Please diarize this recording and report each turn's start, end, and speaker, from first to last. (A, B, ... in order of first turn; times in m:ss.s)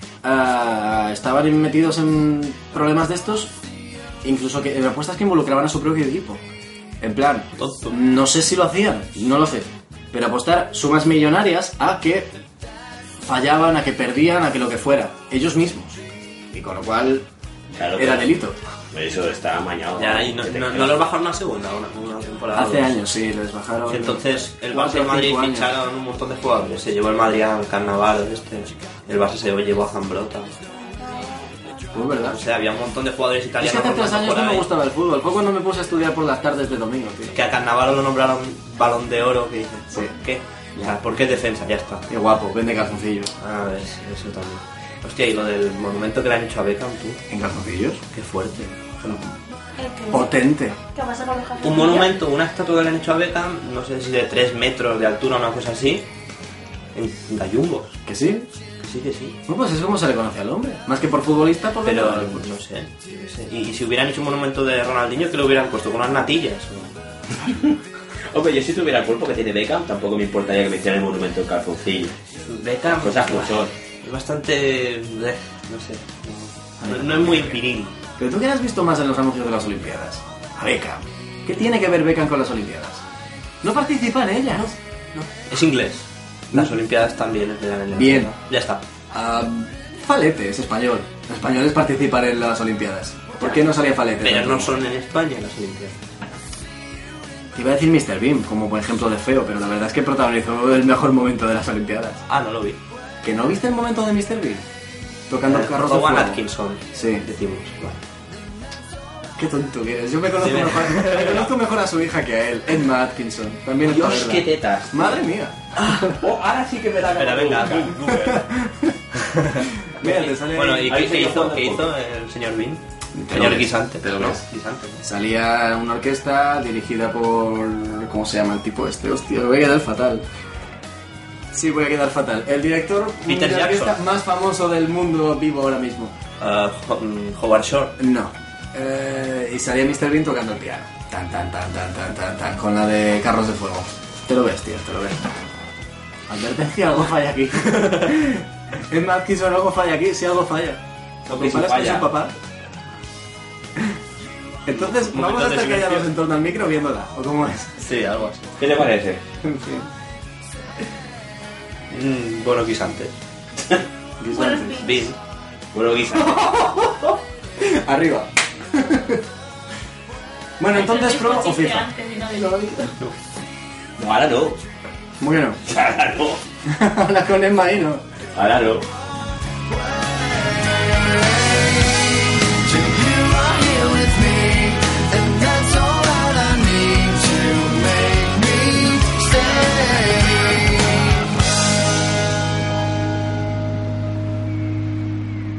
0:00.2-0:03.5 A
0:04.2-0:06.4 A
0:07.0-0:12.3 A
0:07.6-0:07.9 B
0:13.2-0:17.2 A
0:17.7-0:18.3 C
0:18.0-0:18.6 A
0:18.9-0:21.0 C
0:19.9-0:23.0 B
0:22.5-0:25.7 A
0:23.9-0:30.5 B
0:31.9-0:32.4 A
0:32.3-0:34.7 B
0:33.6-0:37.4 A
0:37.3-0:42.0 B
0:42.1-0:43.3 A
0:43.4-0:47.2 B
0:47.3-0:48.0 A
0:48.1-0:48.8 B
0:49.8-0:50.3 D
0:50.1-0:50.8 A
0:50.9-0:52.1 D
0:51.6-0:56.1 B
0:56.9-0:58.0 B
0:58.1-0:58.5 A
0:58.8-0:59.4 B
0:59.4-1:02.5 A
1:01.8-1:07.0 B
1:08.3-1:12.2 C
1:12.4-1:18.0 B
1:13.0-1:13.7 C
1:16.8-1:17.6 A
1:18.2-1:23.0 A
1:23.6-1:24.8 A
1:25.2-1:28.8 B
1:27.9-1:28.3 A
1:29.1-1:34.8 A
1:34.2-1:36.0 B
1:37.5-1:42.2 A
1:42.3-1:42.8 B
1:43.2-1:44.6 A
1:45.3-1:47.2 A
1:45.4-1:48.0 B
1:49.4-1:56.2 A
1:50.4-1:51.5 B
1:53.8-1:55.2 C
1:55.8-1:56.1 B
1:56.2-1:58.0 C
1:57.2-1:58.5 B
1:58.4-1:58.7 A
2:00.0-2:00.9 A
2:00.0-2:00.4 C
2:00.5-2:05.0 B
2:00.9-2:01.9 C
2:03.1-2:04.4 A
2:05.0-2:10.2 A
2:11.5-2:16.1 A
2:13.3-2:14.0 B
2:16.4-2:18.0 B
2:18.0-2:25.3 A
2:26.3-2:32.4 A
2:31.2-2:32.1 C
2:34.6-2:37.8 A
2:34.7-2:36.1 B
2:37.8-2:38.5 B
2:38.6-2:39.2 C
2:39.4-2:39.9 A
2:41.9-2:43.2 B
2:44.2-2:44.9 A
2:44.3-2:45.1 D
2:44.8-2:45.2 B
2:45.7-2:46.4 C
2:46.1-2:49.2 A
2:50.6-2:51.9 A
2:50.7-2:52.9 D
2:54.0-2:54.6 C
2:55.2-2:55.6 A
2:55.7-2:56.4 C
2:56.7-2:58.0 A
2:58.4-2:58.8 C
3:02.7-3:10.6 E